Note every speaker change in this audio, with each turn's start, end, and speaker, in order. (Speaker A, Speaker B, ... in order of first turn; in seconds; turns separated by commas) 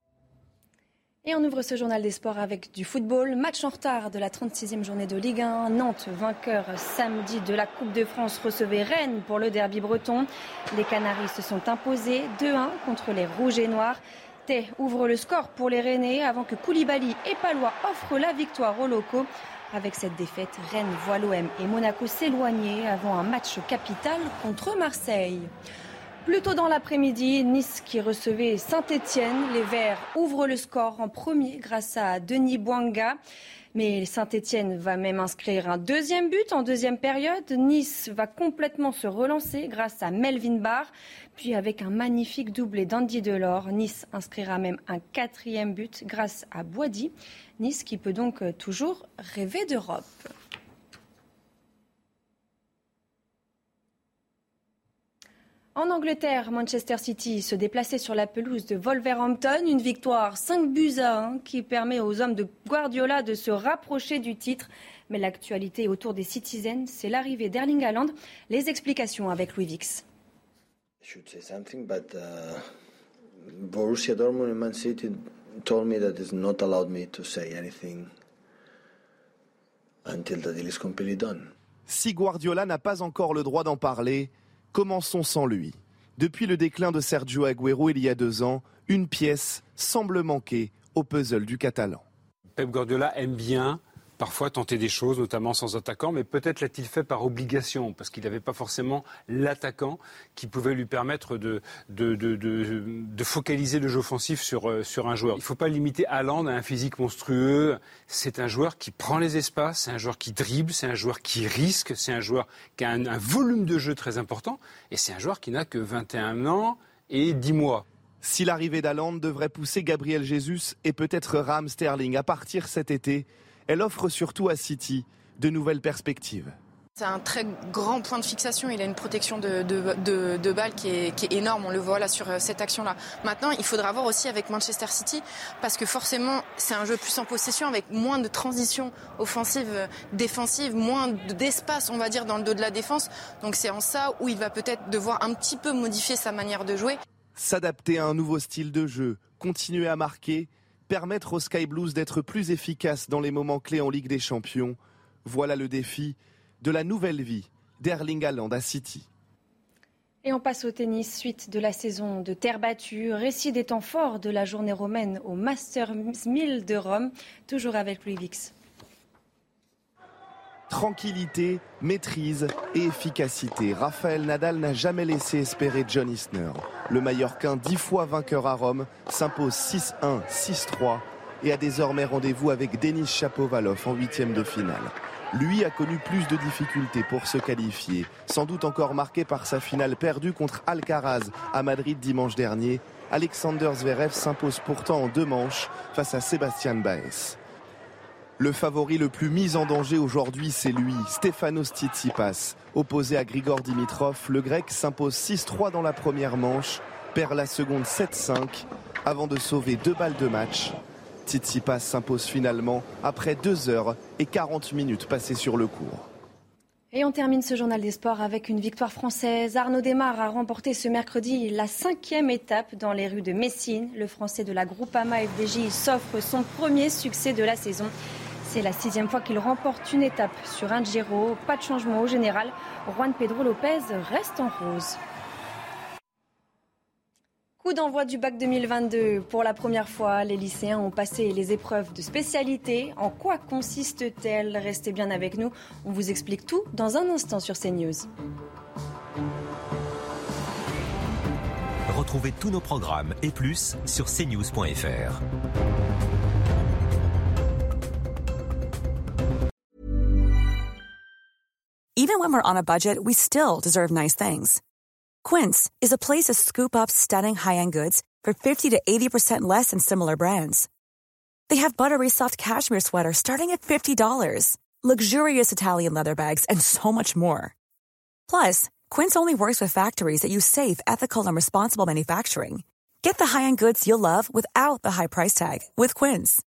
Speaker A: 1.2-25.5, Speaker A: 26.2-33.2, Speaker A: 33.7-50.2, Speaker A: 55.8-70.0, Speaker B: 71.0-72.7, Speaker B: 73.5-78.1, Speaker B: 80.1-81.5, Speaker C: 81.9-92.0, Speaker D: 92.6-117.8, Speaker C: 118.2-126.5, Speaker E: 127.0-147.0, Speaker C: 147.3-159.1, Speaker A: 160.2-168.5, Speaker C: 170.7-197.4, Speaker C: 198.4-216.1, Speaker A: 216.9-235.0, Speaker A: 237.6-248.1, Speaker F: 251.9-255.2, Speaker G: 262.0-264.6, Speaker G: 265.2-270.7, Speaker G: 271.5-277.5, Speaker G: 278.3-286.4